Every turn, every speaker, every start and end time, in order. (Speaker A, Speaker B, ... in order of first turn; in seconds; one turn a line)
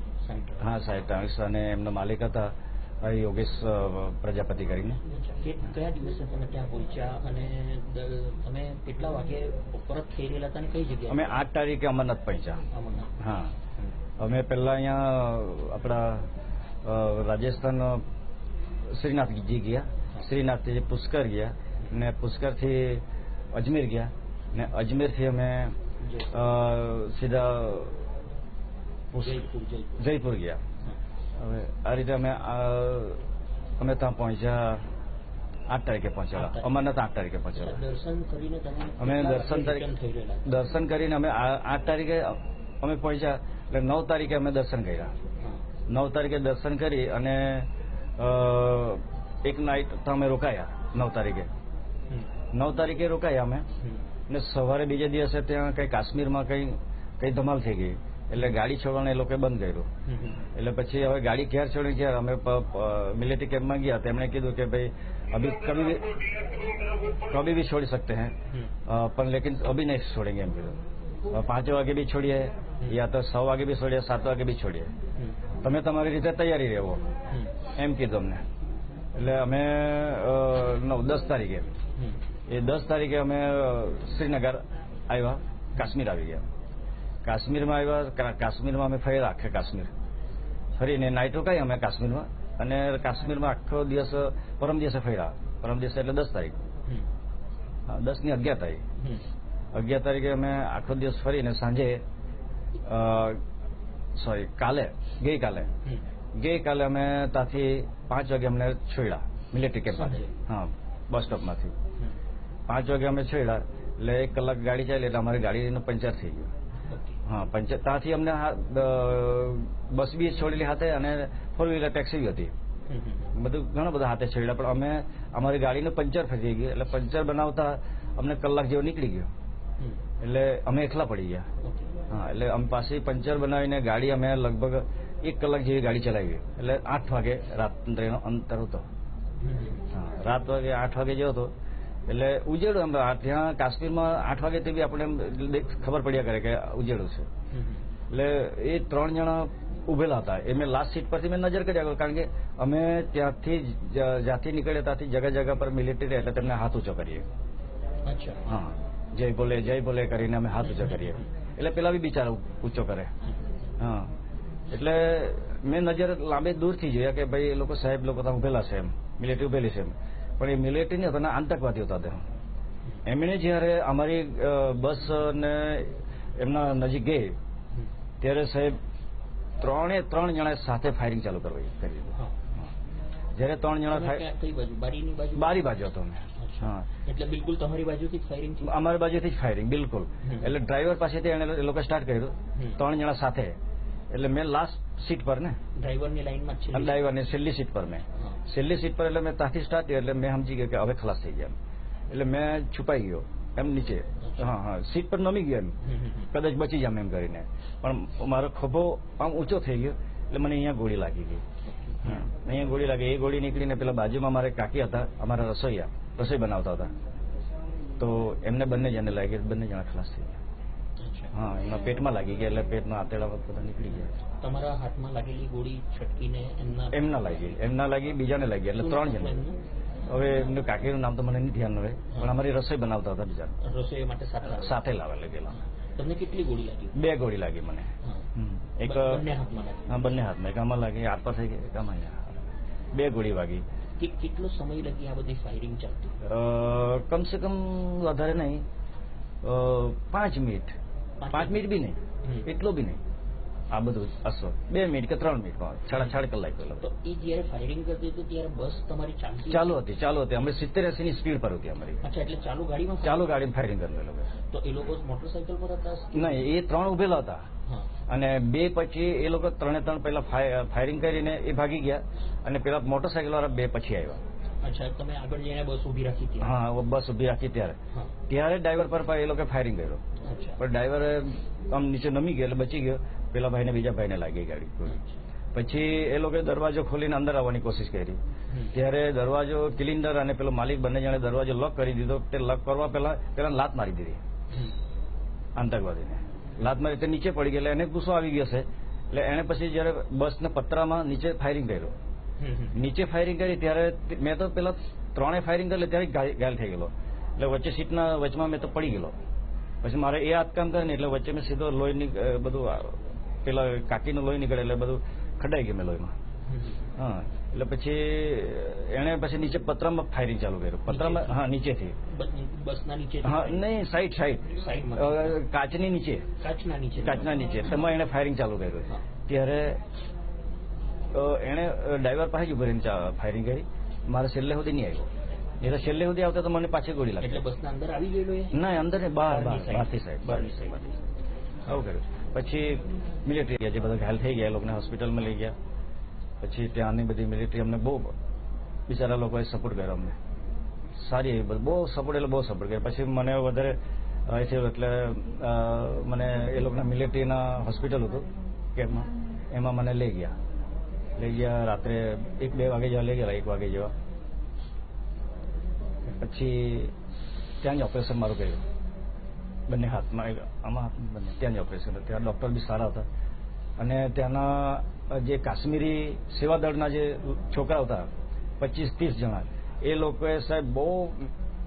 Speaker A: 0.2-0.7
Speaker B: 0.6-5.0
Speaker A: 5.0-11.4
Speaker B: 11.1-12.6
Speaker A: 12.7-13.2
Speaker B: 13.2-13.5
Speaker B: 14.2-16.3
Speaker B: 16.8-18.0
Speaker B: 18.9-25.8
Speaker A: 26.0-26.5
Speaker B: 26.3-28.1
Speaker B: 29.1-29.4
Speaker A: 29.1-30.1
Speaker B: 30.0-30.6
Speaker B: 31.4-33.2
Speaker B: 33.8-34.9
Speaker B: 35.7-37.8
Speaker A: 36.3-36.7
Speaker A: 37.5-40.6
Speaker B: 39.0-39.9
Speaker B: 40.5-45.1
Speaker B: 45.9-51.5
Speaker B: 52.5-53.7
Speaker A: 53.8-54.1
Speaker B: 54.3-59.9
Speaker A: 60.1-60.5
Speaker B: 60.5-70.8
Speaker B: 71.3-74.9
Speaker B: 75.6-77.1
Speaker A: 77.3-77.5
Speaker B: 77.7-78.4
Speaker B: 79.2-81.7
Speaker B: 82.5-86.5
Speaker B: 87.2-89.9
Speaker B: 90.8-96.6
Speaker B: 97.9-98.8
Speaker A: 99.0-99.3
Speaker B: 99.7-102.0
Speaker B: 102.8-103.4
Speaker B: 104.2-105.7
Speaker B: 106.3-111.8
Speaker A: 109.9-110.3
Speaker B: 112.7-116.5
Speaker A: 116.9-117.2
Speaker B: 117.2-122.5
Speaker A: 122.9-123.3
Speaker B: 123.3-129.3
Speaker B: 130.2-131.5
Speaker A: 131.6-131.9
Speaker B: 132.1-138.9
Speaker A: 139.4-139.9
Speaker B: 139.9-141.5
Speaker B: 142.1-147.3
Speaker A: 147.5-147.8
Speaker B: 148.1-157.3
Speaker A: 158.1-158.5
Speaker B: 158.5-163.1
Speaker A: 160.7-161.3
Speaker B: 163.8-164.1
Speaker B: 164.7-172.3
Speaker B: 173.1-177.4
Speaker B: 178.2-178.8
Speaker B: 179.6-182.2
Speaker B: 183.3-184.2
Speaker A: 183.9-185.5
Speaker B: 185.3-186.9
Speaker A: 186.4-188.7
Speaker B: 188.7-193.6
Speaker A: 190.2-190.5
Speaker A: 192.6-192.8
Speaker B: 194.1-195.6
Speaker A: 195.8-197.0
Speaker B: 196.7-201.6
Speaker B: 202.1-205.8
Speaker A: 204.2-204.5
Speaker A: 205.8-206.3
Speaker B: 206.3-211.4
Speaker A: 211.7-212.2
Speaker B: 212.0-216.9
Speaker B: 218.0-220.4
Speaker A: 221.0-221.3
Speaker B: 221.3-224.1
Speaker A: 224.4-227.6
Speaker B: 226.9-229.4
Speaker A: 228.8-229.6
Speaker B: 230.1-233.6
Speaker A: 233.6-234.8
Speaker B: 234.6-235.6
Speaker A: 235.9-237.1
Speaker B: 236.9-239.3
Speaker A: 238.8-240.0
Speaker B: 239.9-242.4
Speaker B: 242.9-243.6
Speaker A: 244.0-246.2
Speaker B: 246.2-248.6
Speaker B: 249.4-250.8
Speaker A: 251.2-251.6
Speaker B: 251.3-253.0
Speaker B: 253.7-256.8
Speaker A: 256.8-259.9
Speaker B: 259.5-262.0
Speaker A: 262.0-263.4
Speaker B: 263.0-264.3
Speaker A: 264.5-266.5
Speaker B: 266.1-267.5
Speaker B: 268.1-274.2
Speaker A: 274.6-276.5
Speaker B: 276.4-280.0
Speaker A: 280.2-280.6
Speaker B: 280.6-285.0
Speaker A: 284.9-285.2
Speaker B: 285.5-288.2
Speaker A: 288.5-288.8
Speaker B: 288.7-294.2
Speaker A: 294.5-294.8
Speaker B: 295.6-301.9
Speaker A: 302.4-302.8
Speaker B: 302.7-309.1
Speaker B: 309.8-316.1
Speaker A: 316.5-316.9
Speaker B: 316.9-322.0
Speaker A: 320.9-321.4
Speaker A: 322.1-323.7
Speaker B: 323.2-326.3
Speaker A: 324.5-325.4
Speaker A: 326.4-327.8
Speaker B: 327.0-329.8
Speaker B: 331.1-337.4
Speaker A: 337.2-341.0
Speaker B: 338.5-340.8
Speaker B: 341.6-345.6
Speaker B: 346.4-348.1
Speaker B: 348.9-350.2
Speaker B: 351.0-353.8
Speaker B: 354.3-360.4
Speaker B: 361.2-363.9
Speaker B: 366.2-366.9
Speaker B: 367.6-368.7
Speaker B: 369.7-373.1
Speaker B: 373.8-381.3